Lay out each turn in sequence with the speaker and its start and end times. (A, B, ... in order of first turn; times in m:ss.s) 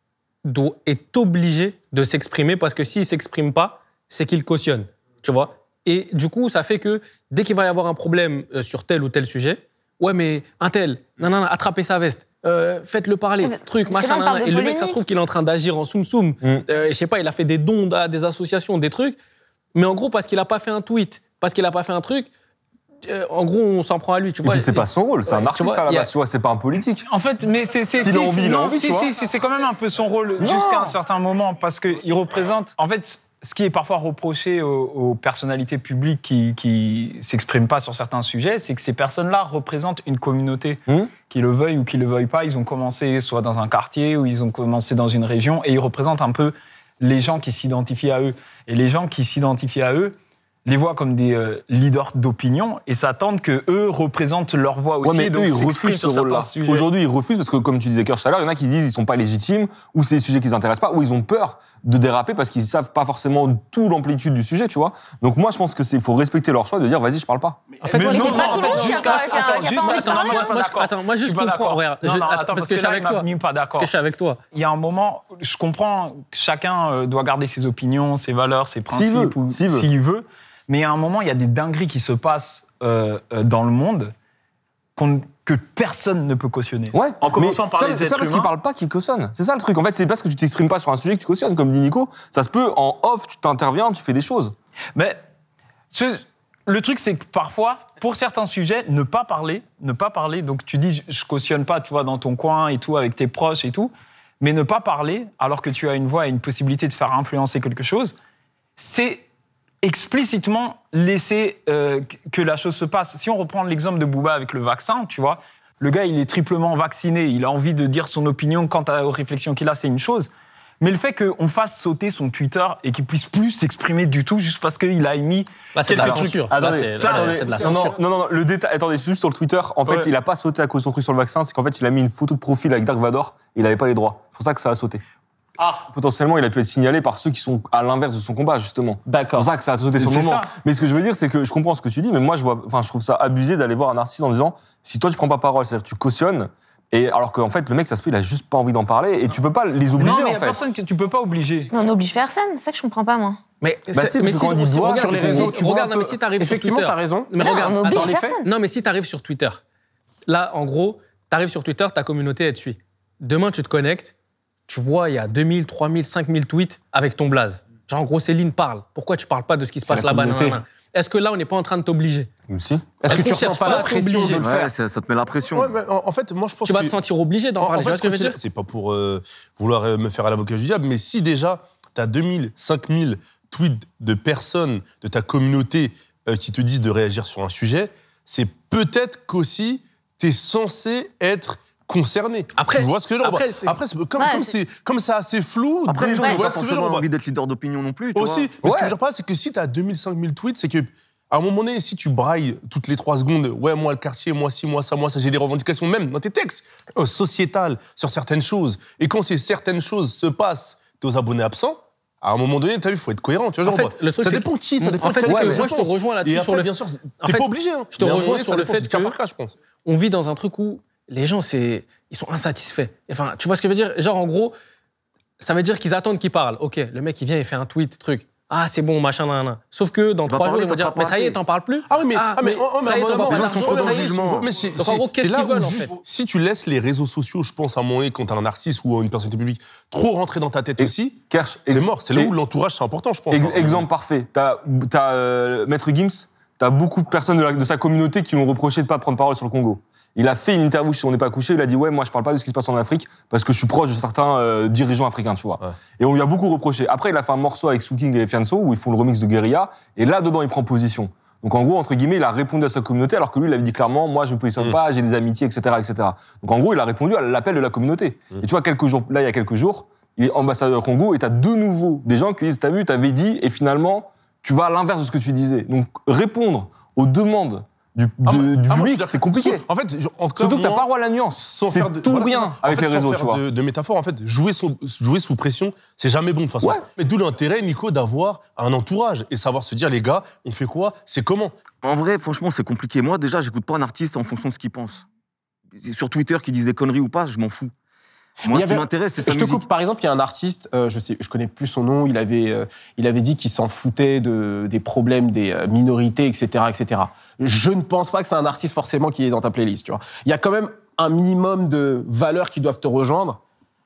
0:00.4-0:19.2 A
0:13.4-0:15.0 B
0:19.8-0:22.3 A
0:23.0-0:26.1 A
0:24.4-0:27.1 C
0:27.1-0:56.9 D
0:28.0-0:29.1 C
0:30.4-0:31.0 C
0:55.0-1:07.6 C
1:07.8-1:13.9 D
1:07.9-1:13.3 A
1:07.9-1:10.5 B
1:13.8-1:14.4 A
1:14.5-1:24.1 D
1:18.9-1:19.9 C
1:25.0-1:28.5 D
1:26.9-1:34.6 C
1:35.0-1:35.2 D
1:35.9-1:48.2 D
1:48.8-1:49.2 D
1:49.8-2:05.5 D
2:05.8-2:08.0 A
2:05.9-2:07.9 E
2:05.9-2:15.0 C
2:15.9-2:30.6 C
2:19.1-2:20.3 E
2:20.2-2:20.4 D
2:30.0-2:31.7 D
2:31.7-2:33.4 B
2:33.6-2:39.6 A
2:33.9-2:35.6 C
2:34.8-2:38.4 E
2:37.4-2:38.4 B
2:40.3-2:44.1 A
2:44.7-2:52.3 A
2:49.9-2:50.6 E
2:52.5-2:53.0 C
2:53.0-2:54.7 E
2:53.0-2:54.4 A
2:54.4-2:55.8 F
2:55.5-2:57.0 G
2:56.6-2:58.4 A
2:57.6-3:17.1 G
3:12.6-3:13.8 A
3:14.2-3:14.6 B
3:15.9-3:18.5 F
3:16.2-3:16.4 B
3:18.1-3:39.6 G
3:18.6-3:18.9 C
3:33.6-3:39.2 A
3:35.2-3:35.7 C
3:39.8-3:44.5 A
3:45.4-3:56.0 A
3:50.3-3:51.4 F
3:51.9-4:01.2 G
3:53.0-3:54.5 F
4:00.8-4:02.3 C
4:01.7-4:03.8 G
4:03.3-4:39.6 C
4:38.2-4:51.6 G
4:40.4-4:43.4 C
4:51.8-4:55.0 F
4:55.8-4:57.7 F
4:58.4-4:59.6 F
4:58.4-5:13.4 E